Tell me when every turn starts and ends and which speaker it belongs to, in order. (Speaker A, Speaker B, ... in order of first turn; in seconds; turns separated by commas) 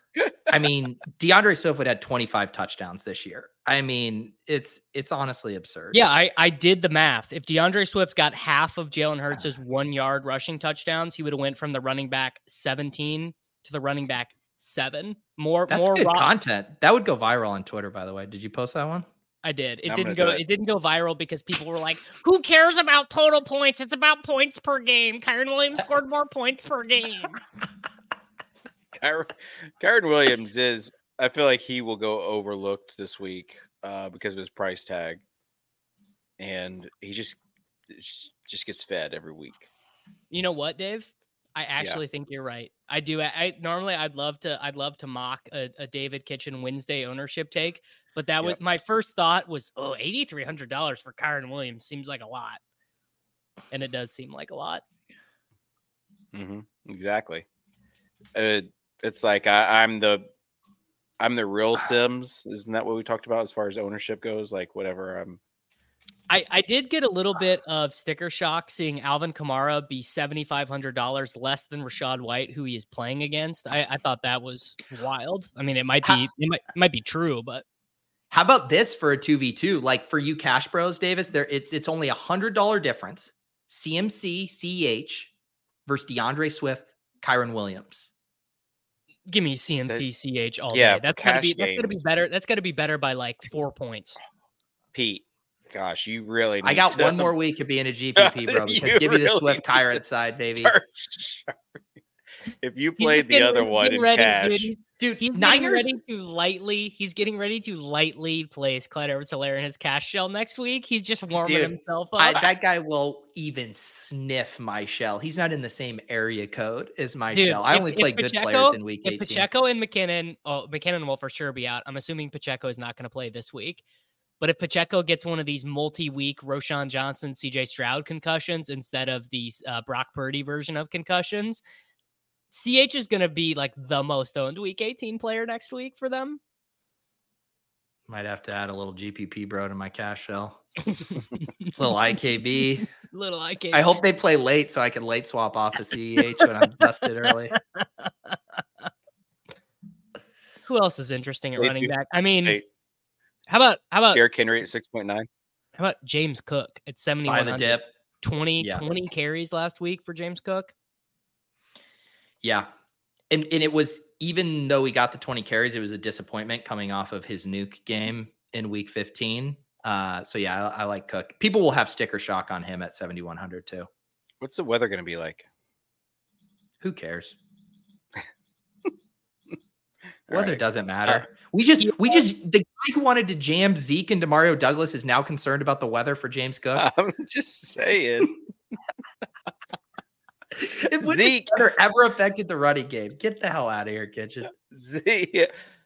Speaker A: 0.5-6.0, Speaker B: 5.9-16.3, Speaker A: 15.7-19.1, Speaker B: 19.4-27.4, Speaker C: 19.9-20.4, Speaker C: 29.0-35.2, Speaker C: 36.4-37.4, Speaker C: 37.9-39.7, Speaker B: 40.3-52.6, Speaker B: 53.7-54.8, Speaker C: 56.3-57.5, Speaker C: 58.4-60.3, Speaker C: 61.2-65.4, Speaker B: 66.3-77.6, Speaker A: 78.3-85.3, Speaker A: 85.9-88.1, Speaker B: 89.3-94.2, Speaker C: 90.7-92.0, Speaker C: 94.9-97.3, Speaker A: 96.6-100.8, Speaker C: 98.2-100.0, Speaker C: 100.6-101.5, Speaker C: 102.6-104.7, Speaker B: 103.0-112.4, Speaker A: 105.1-106.0, Speaker C: 111.4-111.7, Speaker A: 112.2-119.5, Speaker B: 117.3-123.8, Speaker B: 124.4-131.6, Speaker B: 132.5-136.4, Speaker A: 138.1-140.6, Speaker A: 141.8-142.9, Speaker B: 142.9-143.9, Speaker A: 143.7-147.6, Speaker B: 147.6-148.9, Speaker B: 150.7-152.6, Speaker C: 151.6-151.9, Speaker B: 153.5-154.2, Speaker C: 154.1-155.3, Speaker B: 155.8-160.7, Speaker A: 157.3-157.9, Speaker A: 162.4-162.7, Speaker A: 163.3-173.9, Speaker C: 174.4-175.4, Speaker A: 176.8-177.4, Speaker C: 180.3-181.2, Speaker A: 180.3-186.9, Speaker B: 181.8-182.2, Speaker C: 186.8-188.3, Speaker A: 190.6-194.5, Speaker C: 191.0-191.6, Speaker C: 194.7-195.5